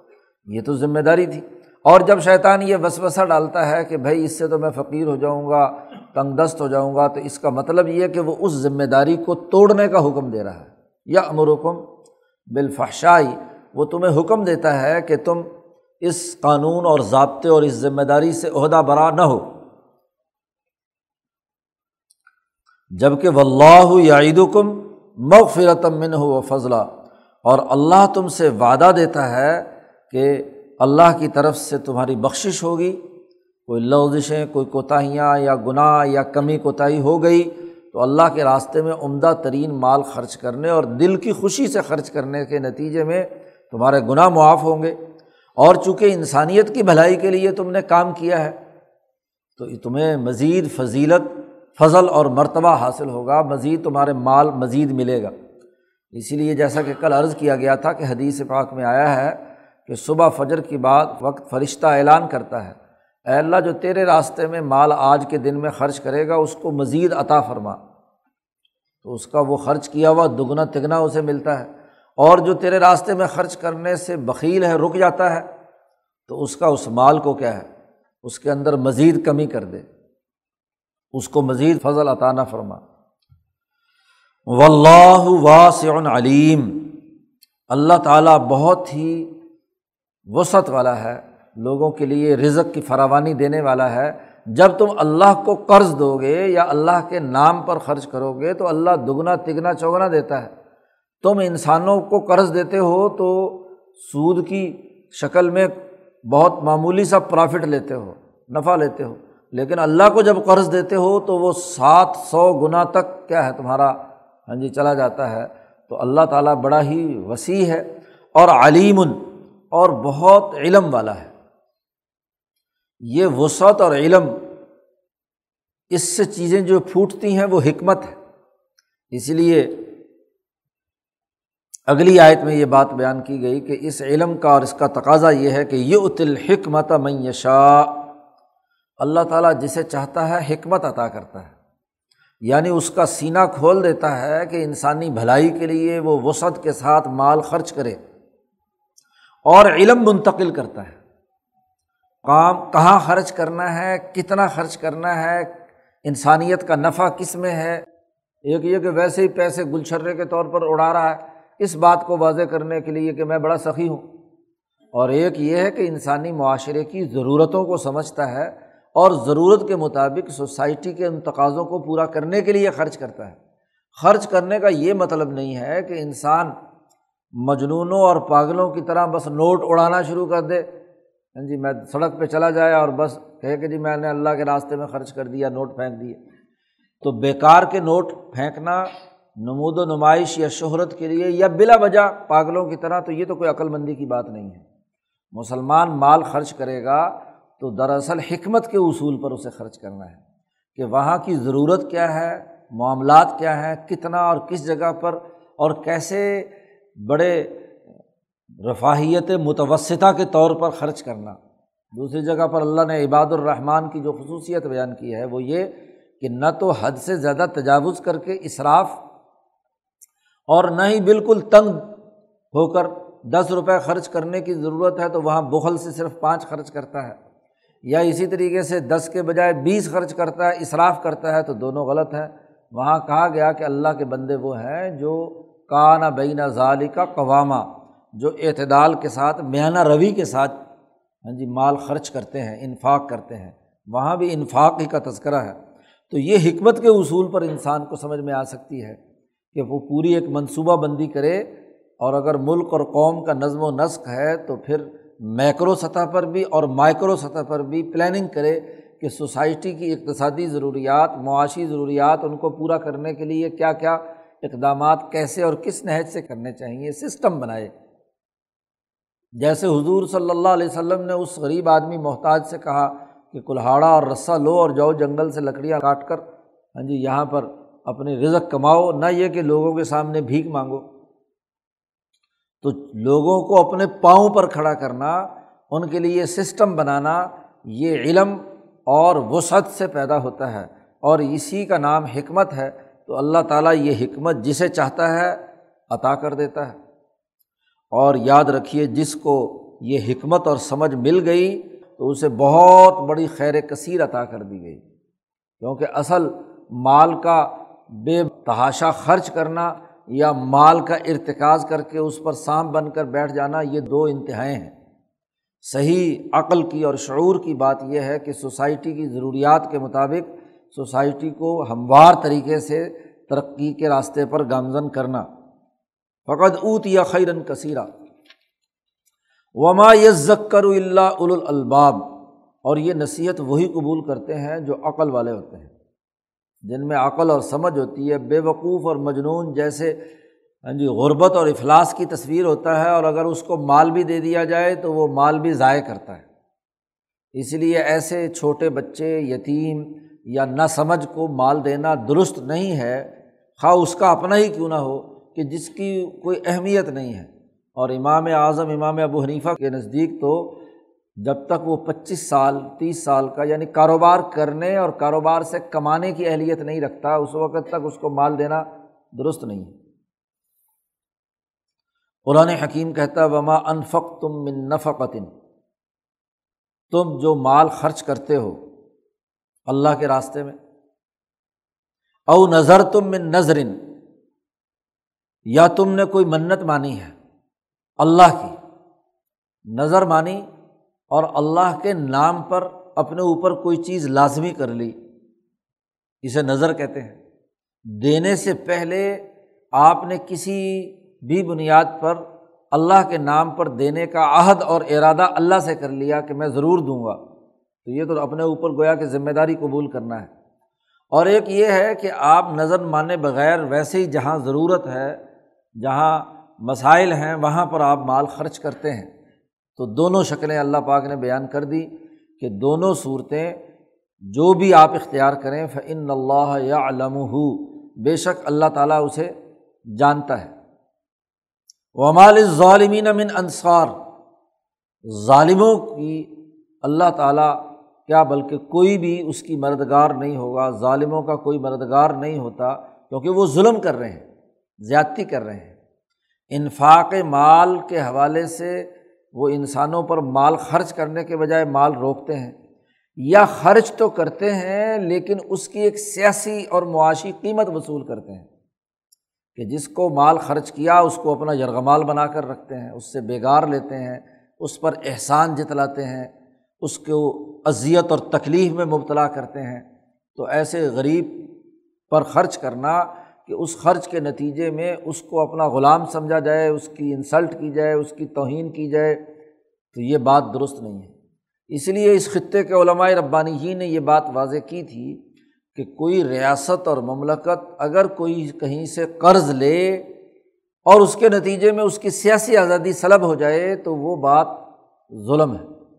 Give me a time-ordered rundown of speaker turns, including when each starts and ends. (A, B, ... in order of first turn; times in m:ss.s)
0:00.5-0:11.8 A
0:12.5-0:15.5 A
0:16.0-0:19.6 A
0:23.0-0:26.9 A
0:27.4-0:33.0 A
0:33.7-0:45.0 A
0:45.6-0:48.6 A
0:49.6-0:55.3 A
0:56.1-1:02.8 A
1:03.3-1:07.8 A
1:09.0-1:15.5 A
1:16.3-1:17.7 A
1:18.2-1:19.8 A
1:21.1-1:22.8 A
1:24.5-1:27.0 A
1:27.7-1:29.4 A
1:30.3-1:40.5 A
1:41.2-1:45.8 A
1:46.3-1:57.8 A
1:58.4-2:01.3 A
2:03.1-2:04.5 A
2:05.9-2:08.2 A
2:09.1-2:09.9 A
2:11.9-2:18.1 A
2:19.0-2:21.5 A
2:22.5-2:28.0 A
2:29.5-2:31.0 A
2:32.2-2:37.8 A
2:38.5-2:44.1 A
2:44.9-2:53.4 A
2:54.0-2:56.6 A
2:57.3-3:00.7 A
3:01.4-3:06.2 A
3:07.0-3:14.6 A
3:15.3-3:20.2 A
3:20.8-3:27.7 A
3:28.6-3:31.4 A
3:31.9-3:39.0 A
3:40.5-3:42.0 A
3:42.5-3:47.2 A
3:47.9-4:00.6 A
4:01.2-4:05.6 A
4:06.1-4:09.0 A
4:09.5-4:11.5 A
4:12.0-4:27.7 A
4:29.4-4:36.2 A
4:36.8-4:40.8 A
4:42.6-4:56.8 A
4:57.9-5:04.8 A
5:05.6-5:14.7 A
5:15.6-5:25.3 A
5:26.3-5:27.9 A
5:29.6-5:35.7 A
5:36.6-5:40.0 A
5:40.6-5:46.3 A
5:47.4-5:53.1 A
5:53.6-6:00.6 A
6:01.2-6:09.8 A
6:12.3-6:15.3 A
6:16.9-6:18.6 A
6:19.7-6:20.6 A
6:22.3-6:23.8 A
6:25.5-6:27.2 A
6:28.0-6:28.6 A
6:29.7-6:30.5 A
6:31.1-6:35.0 A
6:36.2-6:37.2 A
6:37.9-6:39.2 A
6:39.8-6:47.2 A
6:47.8-6:50.3 A
6:51.1-6:55.2 A
6:55.8-6:59.1 A
6:59.8-7:03.6 A
7:04.3-7:09.3 A
7:10.0-7:10.5 A
7:12.0-7:14.0 A
7:15.1-7:24.2 A
7:24.8-7:25.8 A
7:26.5-7:32.6 A
7:33.2-7:38.5 A
7:39.6-7:51.5 A
7:52.1-7:59.2 A
7:59.9-8:01.1 A
8:01.7-8:05.2 A
8:05.8-8:10.0 A
8:10.9-8:14.6 A
8:15.1-8:15.7 A